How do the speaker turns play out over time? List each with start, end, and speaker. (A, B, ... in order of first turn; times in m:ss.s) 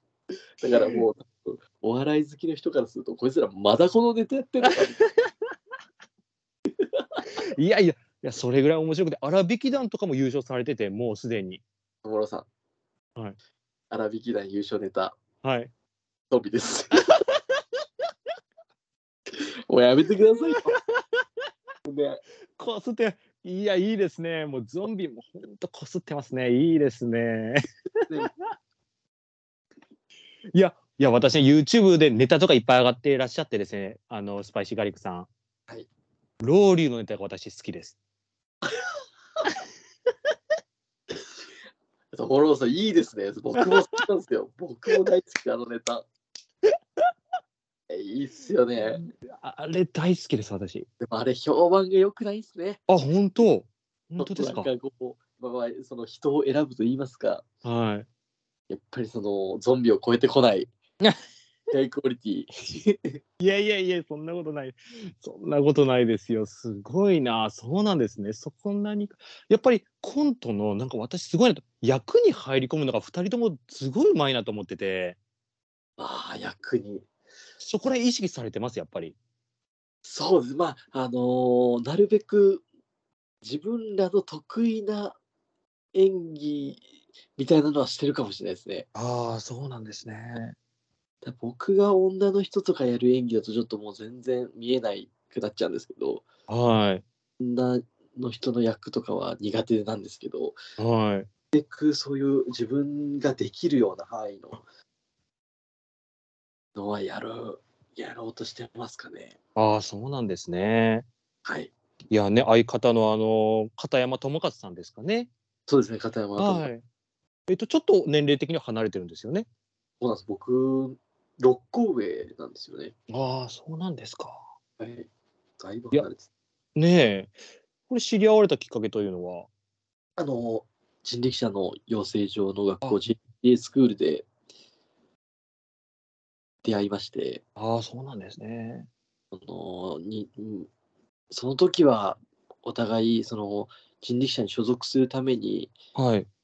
0:00.6-0:05.0 A
0:07.0-0:07.2 A
0:07.5-0:11.6 B
0:12.0-0:12.5 A
0:13.9-0:15.2 A
0:15.4-0:15.7 B
0:16.3-0:17.1 A
0:19.7-0:20.7 A
0:21.9-0:22.2 A
0:22.6-0:27.6 B
0:30.5-0:35.3 B
0:36.4-0:38.0 B
0:42.1-0:46.1 A
0:47.9-0:49.0 A
0:48.8-0:50.9 B
0:51.0-0:52.8 A
0:52.9-0:54.7 B
0:54.2-0:57.4 A
0:57.6-0:58.1 B
0:58.7-1:00.7 A
1:01.7-1:03.2 A
1:03.4-1:15.2 B
1:16.0-1:17.1 A
1:17.6-1:19.2 B
1:20.0-1:22.6 A
1:23.4-1:25.2 A
1:25.9-1:26.8 A
1:27.4-1:28.9 A
1:29.0-1:30.6 B
1:31.2-1:36.2 A
1:36.5-1:37.0 B
1:37.4-1:40.6 A
1:40.8-1:41.3 B
1:41.5-1:44.6 A
1:46.8-1:49.4 A
1:49.6-1:51.1 B
1:51.4-1:51.7 A
1:52.1-1:55.3 B
1:55.7-1:56.7 A
1:56.4-1:56.8 B
1:57.5-1:59.5 B
2:00.0-2:02.9 A
2:03.1-2:04.5 B
2:04.8-2:05.1 A
2:05.6-2:06.3 A
2:06.8-2:07.4 B
2:07.9-2:09.5 B
2:10.2-2:14.3 A
2:16.6-2:17.4 A
2:17.6-2:18.9 B
2:19.3-2:20.7 A
2:21.3-2:25.8 A
2:26.0-2:26.3 B